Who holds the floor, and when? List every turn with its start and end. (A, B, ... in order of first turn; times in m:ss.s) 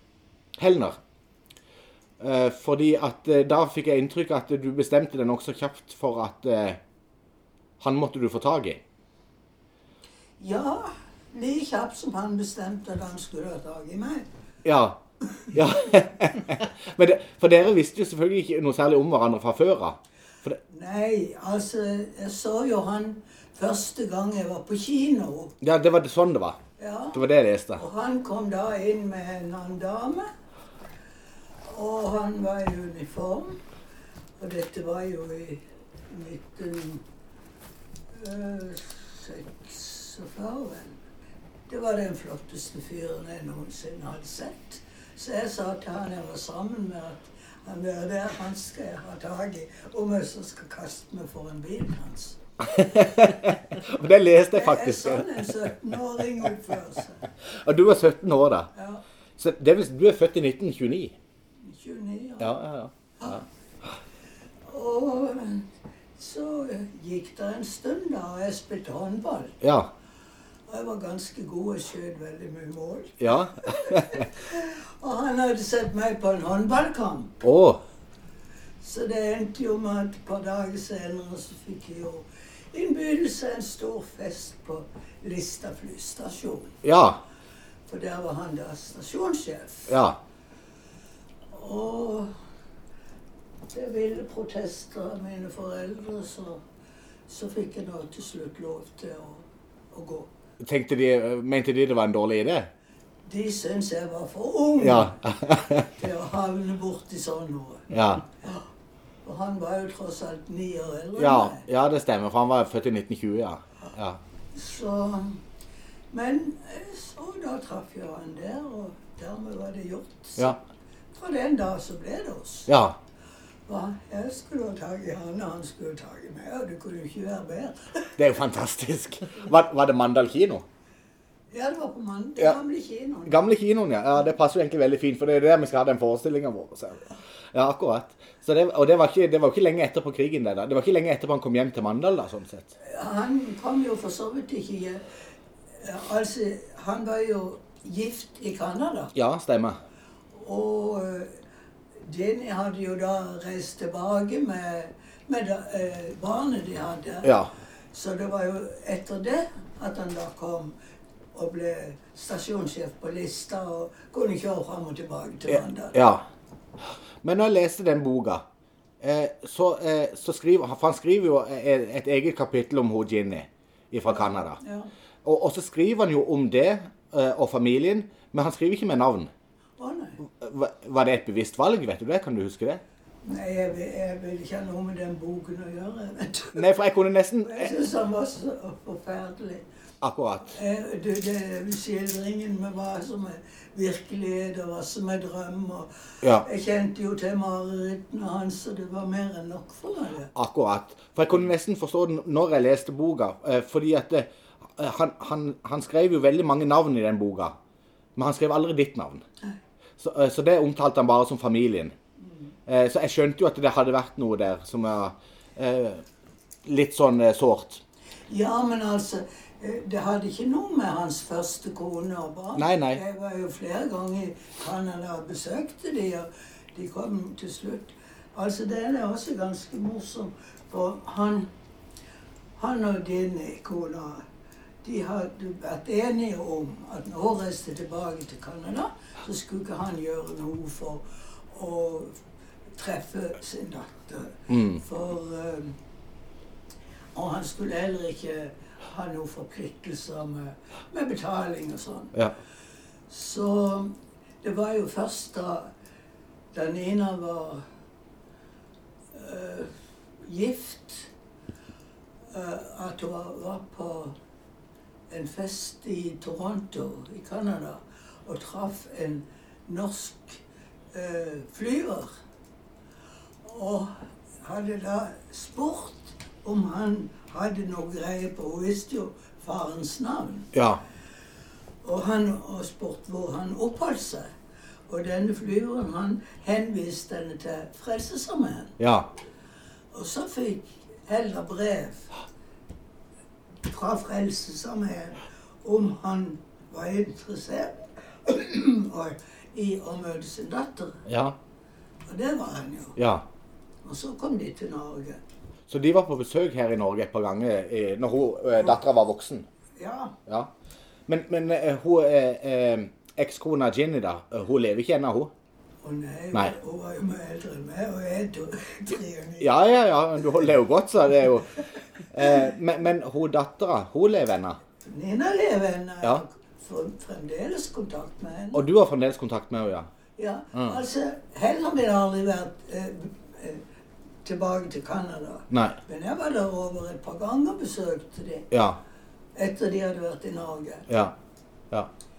0:00.6-0:01.0 A
0:02.2-0:06.8 A
0:07.8-0:08.8 A
0:10.4-0:14.3 B
0:14.6-0:20.6 A
0:20.7-0:25.6 B
0:25.6-0:26.6 A
0:26.8-0:27.2 B
0:27.1-0:27.8 A
0:27.8-0:30.3 B
0:31.6-0:33.6 B
0:34.4-0:37.0 B
0:38.1-0:41.0 B
0:41.7-0:52.4 B
0:52.6-0:55.7 A
0:54.5-0:57.3 B
0:57.4-0:58.7 A
0:58.7-0:59.0 B
0:59.4-1:01.2 A
1:01.6-1:02.6 B
1:02.4-1:03.4 A
1:04.7-1:09.6 B
1:09.6-1:09.9 A
1:10.7-1:17.4 B
1:13.2-1:14.3 A
1:17.4-1:17.8 A
1:18.8-1:26.8 B
1:26.8-1:27.2 A
1:27.9-1:30.0 B
1:29.9-1:30.2 A
1:31.5-1:32.3 B
1:33.7-1:36.6 B
1:37.3-1:40.3 B
1:40.6-1:42.7 A
1:43.2-1:45.2 B
1:44.8-1:45.9 A
1:45.8-1:48.6 B
1:47.9-1:48.2 A
1:49.2-1:51.7 B
1:51.2-1:54.2 A
1:54.5-1:55.4 B
1:56.1-2:00.6 B
2:01.1-2:02.7 B
2:02.7-2:03.0 A
2:03.7-2:08.2 B
2:08.2-2:10.6 A
2:11.5-2:13.4 B
2:13.3-2:22.7 A
2:22.8-2:25.1 B
2:25.7-2:29.1 B
2:29.2-2:29.8 A
2:30.3-2:31.4 B
2:32.0-2:37.4 B
2:37.2-2:37.5 A
2:37.9-2:40.8 B
2:41.3-2:46.0 B
2:45.9-2:46.3 A
2:47.2-2:48.4 A
2:49.0-2:54.6 A
2:54.1-2:54.9 B
2:55.2-2:59.3 A
2:59.8-3:00.2 B
3:00.4-3:02.8 A
3:03.2-3:06.7 B
3:06.5-3:07.8 A
3:07.4-3:09.6 B
3:10.0-3:10.6 A
3:10.4-3:20.3 B
3:20.3-3:27.5 A
3:28.2-3:29.2 A
3:30.0-3:31.9 A
3:32.2-3:32.5 B
3:32.7-3:36.0 A
3:36.6-3:37.8 A
3:38.3-3:51.5 B
3:42.6-3:43.0 A
3:52.6-3:54.2 B
3:54.8-4:02.2 B
4:02.8-4:05.8 B
4:04.5-4:04.8 A
4:07.1-4:12.2 B
4:13.1-4:15.7 B
4:16.5-4:17.6 B
4:19.1-4:21.1 B
4:22.3-4:24.2 B
4:25.1-4:30.4 B
4:30.9-4:32.1 B
4:33.4-4:40.5 B
4:40.5-4:40.8 A
4:41.8-4:44.3 B
4:44.9-4:48.8 B
4:48.8-4:49.1 A
4:49.9-4:52.1 B
4:53.6-5:01.1 B
5:01.1-5:01.4 A
5:02.1-5:03.0 B
5:03.0-5:03.3 A
5:03.8-5:05.2 B
5:05.7-5:09.5 A
5:09.8-5:10.2 B
5:10.3-5:10.5 A
5:11.1-5:15.3 A
5:15.8-5:19.6 B
5:19.4-5:24.6 A
5:24.8-5:28.6 B
5:28.5-5:29.9 A
5:30.2-5:33.6 B
5:30.5-5:30.8 A
5:34.2-5:38.5 B
5:35.5-5:35.8 A
5:38.5-5:38.8 A
5:39.3-5:40.9 B
5:40.9-5:41.2 A